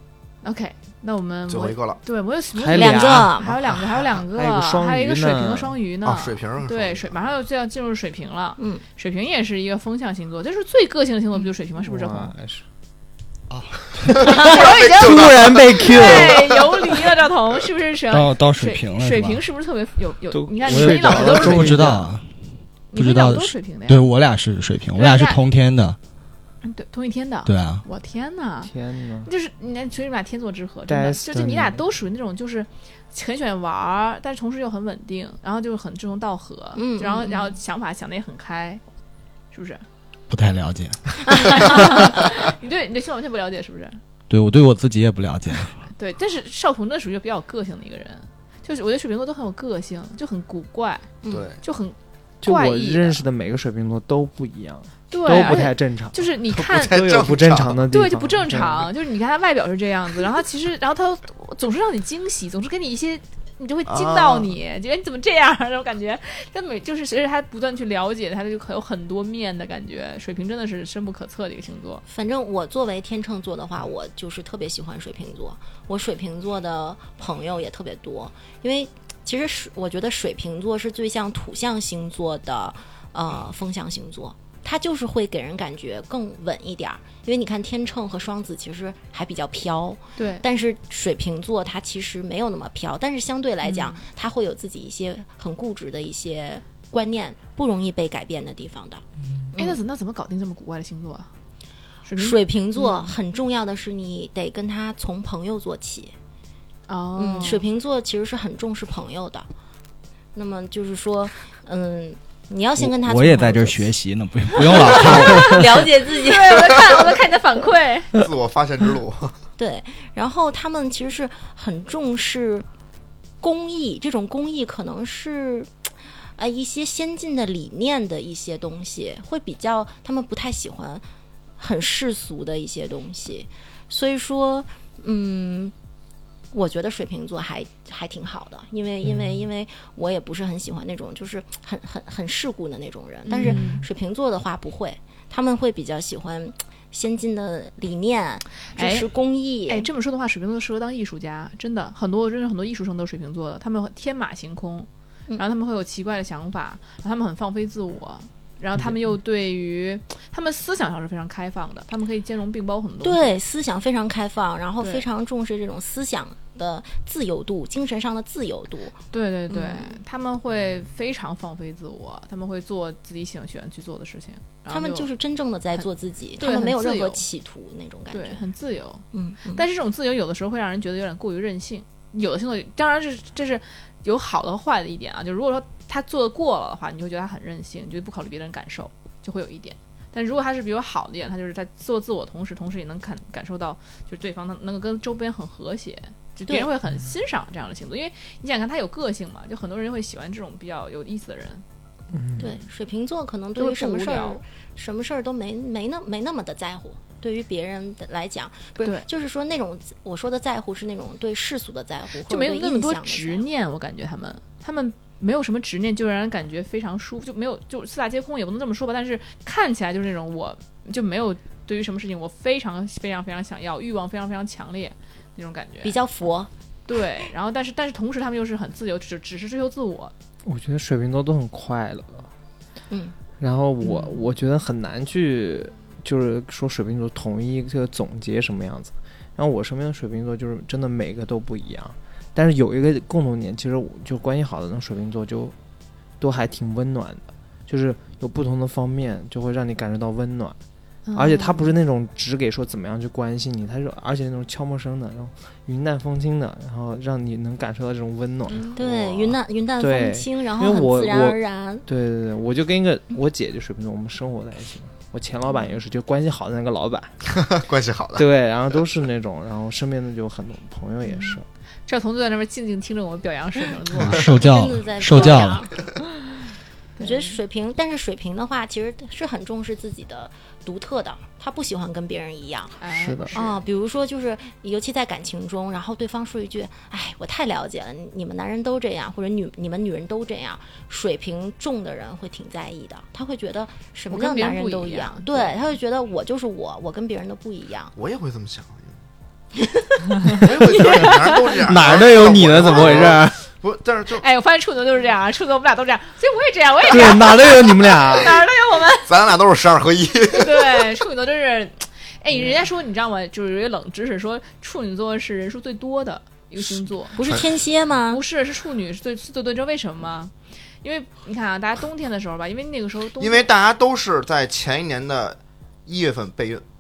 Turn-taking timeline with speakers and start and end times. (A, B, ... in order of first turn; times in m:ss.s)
0:00.4-0:12.3 A
0:01.5-0:02.0 B
0:02.6-0:03.4 C
0:02.7-0:03.5 D
0:04.3-0:05.8 C
0:06.0-0:07.3 B
0:08.6-0:08.8 D
0:11.8-0:12.6 C
0:13.8-0:16.6 B
0:14.2-0:16.6 C
0:14.2-0:22.0 A
0:18.1-0:19.4 E
0:20.3-0:22.1 C
0:20.7-0:22.4 E
0:22.9-0:24.1 A
0:23.0-0:26.0 E
0:25.0-0:25.4 A
0:26.6-0:28.7 A
0:27.5-0:27.8 E
0:28.6-0:29.3 C
0:29.2-0:38.8 A
0:30.9-0:31.8 C
0:36.8-0:37.5 D
0:39.5-0:39.8 A
0:40.3-0:41.0 E
0:41.3-0:42.0 D
0:41.4-0:44.0 A
0:44.3-0:45.8 E
0:45.9-0:53.2 A
0:51.2-0:51.5 D
0:51.3-0:51.6 B
0:52.4-0:56.2 C
0:55.1-0:57.0 A
0:56.5-0:57.8 B
0:56.8-0:58.9 C
0:57.9-1:12.0 A
1:03.9-1:04.5 B
1:12.1-1:39.8 D
1:30.2-1:30.5 A
1:33.6-1:34.0 A
1:39.6-1:41.3 A
1:42.0-1:43.1 A
1:42.2-1:46.1 D
1:46.9-1:47.6 A
1:47.2-1:49.5 D
1:50.4-1:54.0 D
1:52.8-1:55.7 E
1:54.6-1:56.8 D
1:54.6-1:58.2 A
1:58.1-1:59.3 B
1:59.6-2:02.7 D
2:03.4-2:11.0 D
2:11.6-2:15.7 D
2:16.5-2:29.9 D
2:23.3-2:23.8 A
2:23.5-2:23.8 C
2:28.7-2:29.1 A
2:29.7-2:43.3 A
2:43.0-2:50.0 D
2:44.8-2:45.0 A
2:49.1-2:55.1 A
2:54.7-2:58.4 D
2:56.4-2:57.2 A
2:58.1-3:21.6 A
2:59.1-2:59.6 D
3:22.1-3:22.5 C
3:22.4-3:33.4 D
3:23.6-3:24.4 A
3:32.3-3:46.0 A
3:45.8-3:46.5 D
3:46.9-3:50.1 A
3:50.4-3:52.3 C
3:52.9-3:53.2 D
3:53.4-4:05.5 C
3:53.8-3:54.2 A
4:06.2-4:10.6 C
4:11.1-4:11.7 A
4:11.2-4:27.1 C
4:18.5-4:18.8 A
4:18.7-4:21.9 D
4:27.4-4:28.3 B
4:28.2-4:31.5 C
4:31.1-4:31.4 A
4:31.9-4:34.4 A
4:34.1-4:35.7 E
4:34.3-4:35.7 D
4:35.1-4:35.4 A
4:37.0-4:37.4 A
4:37.0-4:42.8 D
4:42.8-4:43.6 A
4:43.0-4:43.3 C
4:43.3-4:57.9 D
4:54.1-4:55.7 A
4:58.0-4:59.0 B
4:59.6-5:00.0 D
5:00.3-5:04.2 B
5:00.3-5:01.6 A
5:00.8-5:03.4 C
5:04.2-5:09.1 A
5:06.9-5:08.4 C
5:09.0-5:10.9 B
5:10.3-5:17.2 A
5:17.2-5:18.2 D
5:17.2-5:17.5 B
5:18.1-5:23.5 A
5:23.2-5:26.6 B